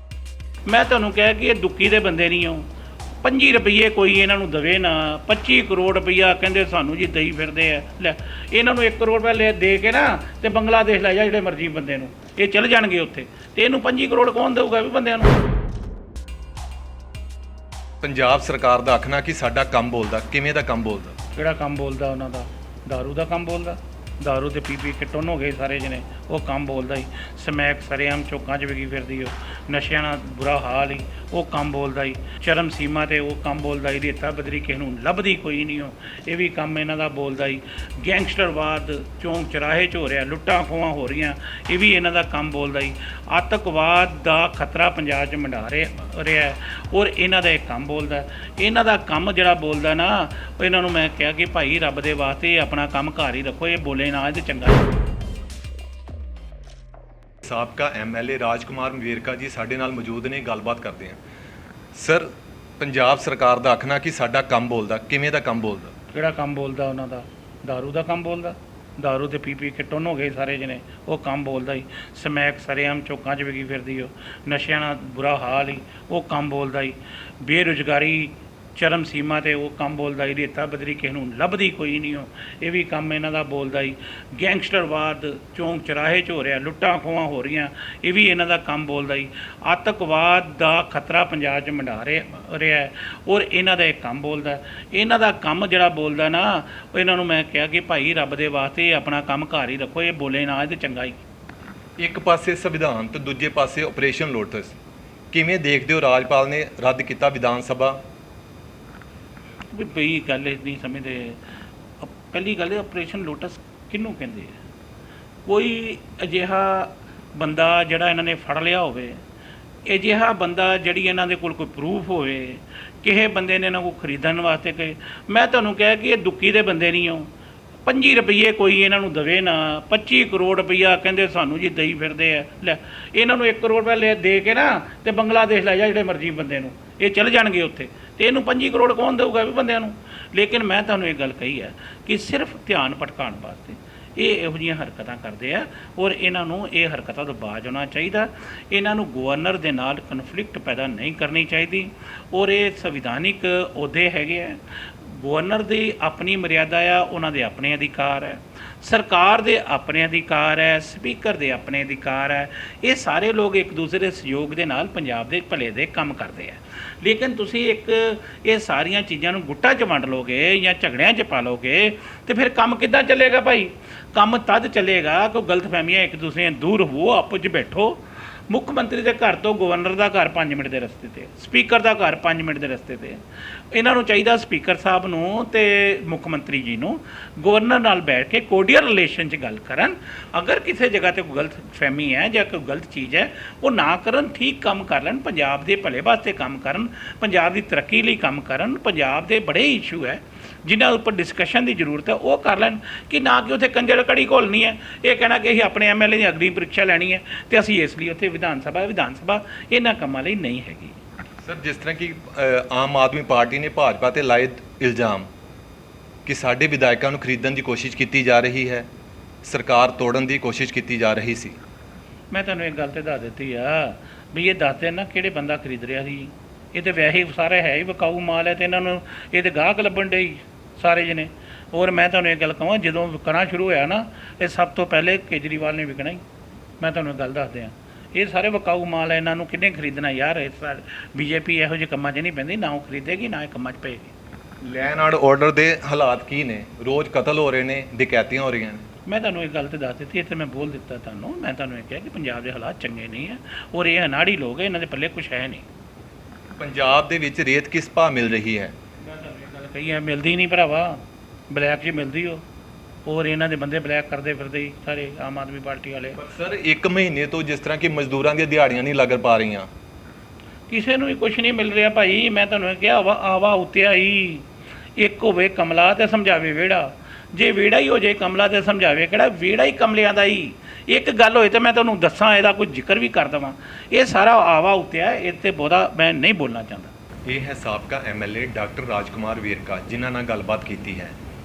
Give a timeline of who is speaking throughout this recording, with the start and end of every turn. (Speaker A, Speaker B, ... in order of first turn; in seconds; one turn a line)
Speaker A: 0.7-2.7
Speaker A: 3.2-15.4
Speaker B: 18.0-21.2
Speaker A: 21.4-55.0
Speaker B: 57.4-61.2
Speaker B: 61.9-65.9
Speaker A: 66.1-101.2
Speaker B: 102.0-104.8
Speaker B: 105.3-108.0
Speaker A: 109.6-111.4
Speaker A: 112.0-114.6
Speaker A: 115.5-119.2
Speaker A: 119.9-127.3
Speaker A: 127.9-183.2
Speaker A: 183.7-211.0
Speaker B: 211.4-215.3
Speaker B: 216.2-218.9
Speaker B: 219.4-221.6
Speaker A: 222.3-236.2
Speaker A: 236.8-244.1
Speaker B: 244.6-248.9
Speaker A: 249.1-255.7
Speaker B: 256.6-258.7
Speaker A: 259.0-262.4
Speaker A: 263.1-266.2
Speaker B: 266.2-269.7
Speaker A: 270.7-274.5
Speaker A: 275.0-286.9
Speaker B: 287.3-291.1